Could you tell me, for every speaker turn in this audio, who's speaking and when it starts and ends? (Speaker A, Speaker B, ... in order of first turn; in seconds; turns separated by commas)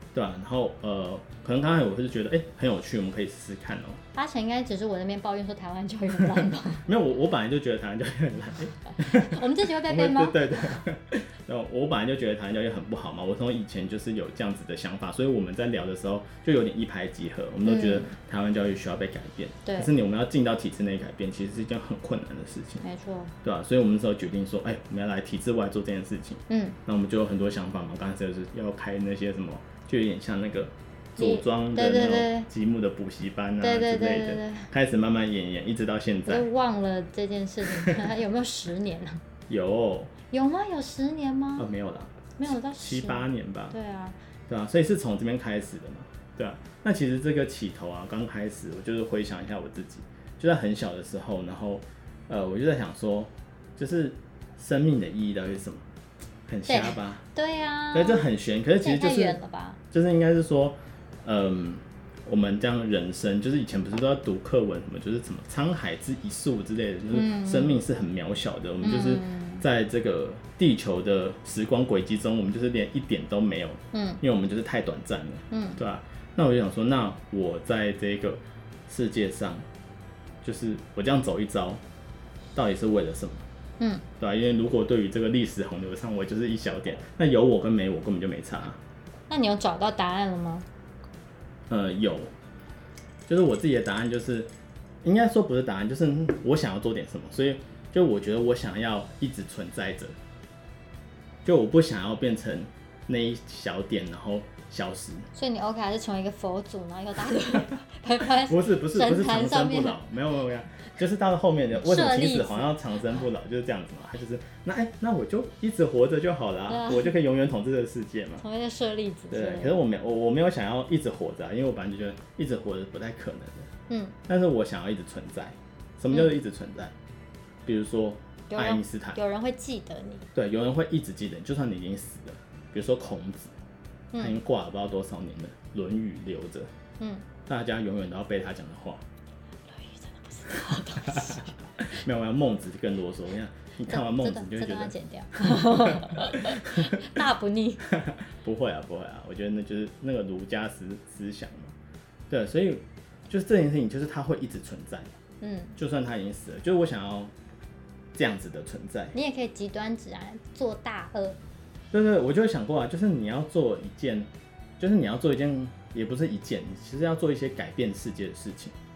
Speaker A: 0.1-4.0, Speaker B: 4.1-6.8, Speaker A: 6.8-22.8, Speaker B: 9.0-10.8, Speaker B: 17.6-18.1, Speaker B: 19.6-19.9, Speaker B: 22.8-23.3, Speaker A: 23.4-36.5, Speaker B: 26.5-26.8, Speaker B: 31.2-32.5, Speaker B: 33.6-34.7, Speaker B: 36.3-39.2, Speaker A: 37.8-38.1, Speaker A: 39.5-40.1, Speaker B: 40.3-41.7, Speaker A: 41.6-43.8, Speaker B: 42.4-44.2, Speaker A: 44.5-55.8, Speaker A: 56.5-57.2, Speaker B: 56.7-58.3, Speaker A: 57.9-59.4, Speaker B: 58.8-59.8, Speaker A: 59.9-79.6, Speaker B: 67.1-67.8, Speaker B: 68.8-69.6, Speaker B: 73.9-74.2, Speaker B: 75.5-75.8, Speaker A: 80.4-81.8, Speaker A: 82.5-83.5, Speaker B: 83.8-84.0, Speaker A: 84.2-88.8, Speaker B: 89.3-90.7, Speaker A: 91.7-92.3, Speaker A: 93.3-94.5, Speaker A: 95.0-100.2, Speaker A: 101.4-105.3, Speaker B: 105.3-110.0, Speaker A: 108.2-118.4, Speaker B: 111.7-112.7, Speaker B: 116.7-117.1, Speaker B: 118.4-119.8, Speaker A: 119.3-123.7, Speaker B: 123.9-124.2, Speaker A: 124.3-126.9, Speaker A: 127.6-129.2, Speaker B: 128.5-130.3, Speaker A: 130.3-133.5, Speaker A: 134.2-136.7, Speaker B: 137.0-137.2, Speaker A: 137.5-139.0, Speaker B: 139.7-141.9, Speaker A: 141.1-147.2, Speaker B: 143.9-147.8, Speaker A: 147.9-151.7, Speaker A: 152.3-155.1, Speaker B: 155.4-155.7, Speaker A: 155.8-157.3, Speaker A: 158.1-159.1, Speaker B: 159.1-161.4, Speaker A: 161.9-168.7